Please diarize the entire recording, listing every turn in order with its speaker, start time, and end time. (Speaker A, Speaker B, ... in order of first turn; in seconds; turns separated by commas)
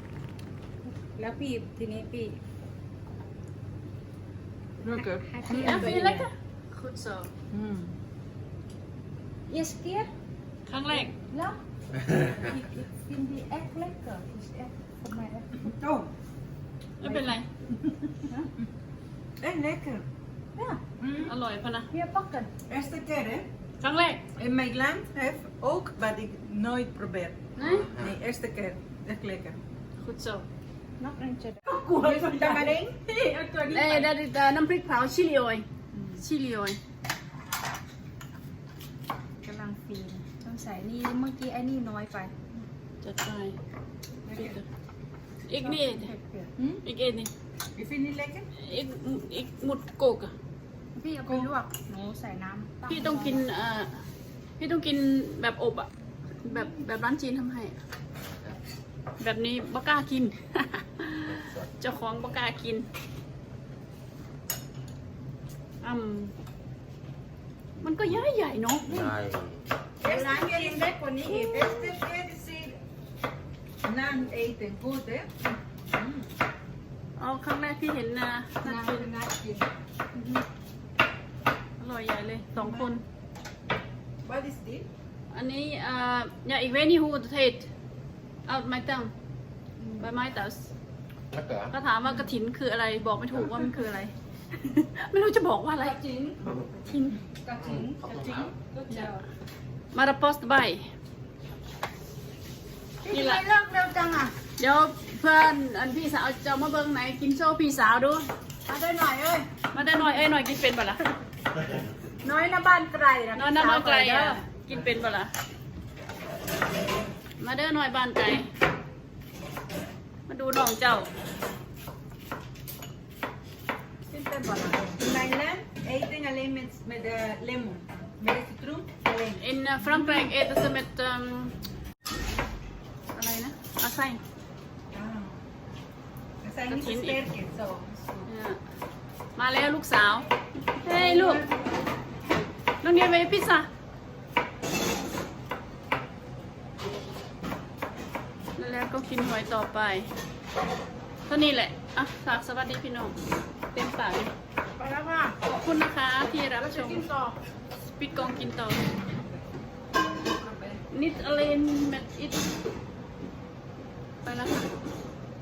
Speaker A: 1.0-2.4, Speaker B: 4.8-6.1, Speaker A: 5.0-6.3, Speaker C: 5.5-7.3, Speaker B: 7.5-7.9, Speaker A: 9.5-10.1, Speaker C: 10.7-11.1, Speaker A: 10.9-11.6, Speaker A: 12.2-15.8, Speaker B: 15.8-16.1, Speaker C: 17.0-17.5, Speaker A: 17.0-17.4, Speaker B: 19.4-20.1, Speaker A: 20.6-20.8, Speaker B: 21.0-21.3, Speaker C: 21.2-21.9, Speaker A: 21.9-22.5, Speaker B: 22.7-23.5, Speaker C: 23.8-24.2, Speaker B: 24.4-29.6, Speaker C: 27.6-27.9, Speaker D: 27.6-28.1, Speaker C: 30.0-30.4, Speaker A: 31.0-34.1, Speaker B: 31.7-33.0, Speaker C: 33.7-35.7, Speaker A: 35.9-36.2, Speaker C: 36.2-36.8, Speaker A: 39.4-42.3, Speaker C: 43.0-43.6, Speaker B: 44.2-44.6, Speaker C: 44.3-44.6, Speaker C: 45.5-46.1, Speaker A: 45.6-46.6, Speaker C: 46.8-47.3, Speaker B: 47.8-48.5, Speaker C: 48.6-50.3, Speaker A: 51.0-53.4, Speaker C: 52.9-53.9, Speaker C: 54.6-55.9, Speaker C: 56.4-57.8, Speaker A: 56.5-56.8, Speaker D: 58.1-58.6, Speaker C: 59.2-62.9, Speaker D: 61.3-61.7, Speaker C: 65.8-66.3, Speaker C: 67.8-68.8, Speaker D: 68.8-69.6, Speaker B: 70.0-72.8, Speaker A: 70.0-72.0, Speaker B: 73.8-75.4, Speaker B: 75.9-76.2, Speaker C: 77.2-79.1, Speaker A: 78.6-79.7, Speaker C: 81.8-83.0, Speaker B: 82.6-82.9, Speaker B: 84.2-84.9, Speaker C: 85.3-87.7, Speaker C: 88.5-89.1, Speaker A: 89.8-90.1, Speaker C: 90.0-90.7, Speaker D: 91.3-91.7, Speaker C: 91.7-96.0, Speaker A: 95.8-96.4, Speaker C: 96.8-97.2, Speaker A: 97.4-98.0, Speaker D: 97.6-98.5, Speaker C: 98.1-99.1, Speaker A: 98.7-99.2, Speaker C: 99.9-100.8, Speaker A: 103.0-104.3, Speaker C: 103.1-103.4, Speaker C: 104.6-108.3, Speaker A: 108.7-109.9, Speaker C: 109.7-111.0, Speaker A: 112.2-114.4, Speaker C: 113.3-115.3, Speaker C: 117.4-118.5, Speaker C: 120.3-121.1, Speaker A: 124.1-125.1, Speaker B: 125.0-129.4, Speaker C: 129.4-131.5, Speaker C: 133.1-134.2, Speaker B: 134.9-135.4, Speaker B: 136.4-138.3, Speaker C: 136.7-137.2, Speaker C: 138.3-138.6, Speaker C: 139.4-140.3, Speaker C: 140.8-141.4, Speaker A: 140.9-141.5, Speaker C: 142.8-143.7, Speaker C: 148.6-150.1, Speaker C: 151.3-153.2, Speaker C: 153.7-154.3, Speaker A: 154.8-155.4, Speaker C: 155.4-157.1, Speaker A: 156.3-157.4, Speaker C: 158.0-158.8, Speaker A: 160.2-160.8, Speaker C: 160.9-162.4, Speaker C: 164.2-164.7